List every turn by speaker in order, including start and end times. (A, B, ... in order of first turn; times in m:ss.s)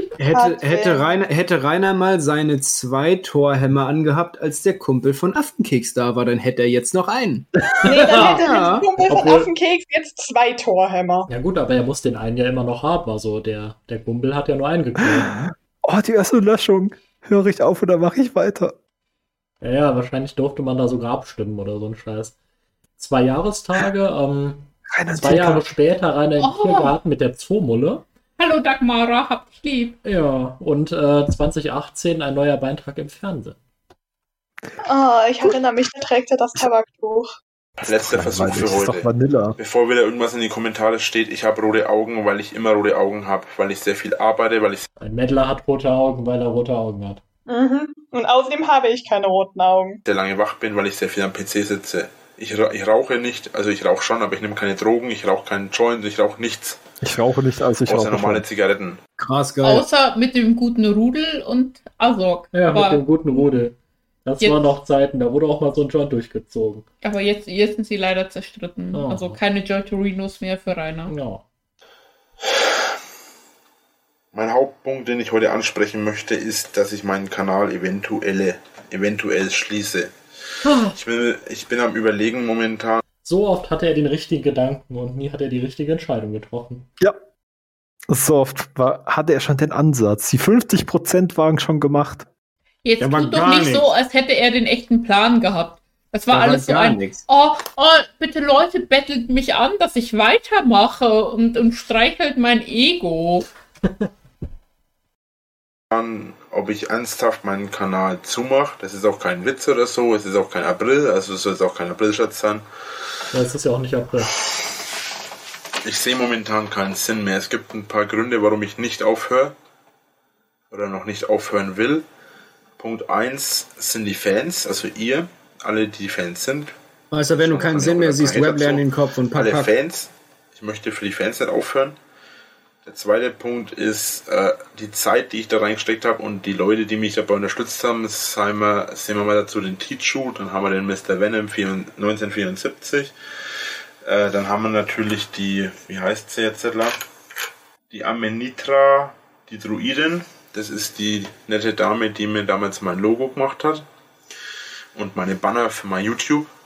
0:00.2-0:08.9 A
0:00.3-0:01.1 B
0:07.8-0:11.3 B
0:08.0-0:08.3 C
0:09.1-0:09.5 C
0:11.3-0:15.4 C
0:15.0-0:18.8 D
0:19.6-0:22.4 C
0:23.0-0:28.0 C
0:24.9-0:25.7 D
0:26.4-0:27.0 E
0:28.4-0:30.0 E
0:30.0-0:33.6 C
0:34.8-0:37.3 B
0:37.8-0:39.6 D
0:37.8-0:44.9 F
0:45.0-0:47.2 C
0:47.5-0:50.0 B
0:50.0-0:56.8 F
0:57.0-0:58.5 D
0:57.9-0:59.0 F
0:59.2-0:59.9 A
0:59.6-1:03.0 E
1:02.5-1:06.9 C
1:04.4-1:04.7 E
1:07.0-1:11.1 E
1:08.9-1:09.4 C
1:11.1-1:11.4 C
1:14.3-1:20.1 F
1:20.6-1:21.0 C
1:20.9-1:23.0 F
1:23.2-1:26.9 C
1:28.1-1:32.3 D
1:32.8-1:43.5 E
1:33.0-1:33.9 A
1:36.3-1:37.2 A
1:45.9-1:52.6 F
1:53.3-1:54.4 C
1:55.8-1:59.6 F
2:00.7-2:02.0 F
2:02.8-2:06.8 F
2:07.1-2:09.7 A
2:07.3-2:12.0 F
2:12.8-2:23.1 F
2:24.0-2:27.0 F
2:27.9-2:33.8 F
2:35.0-2:36.5 F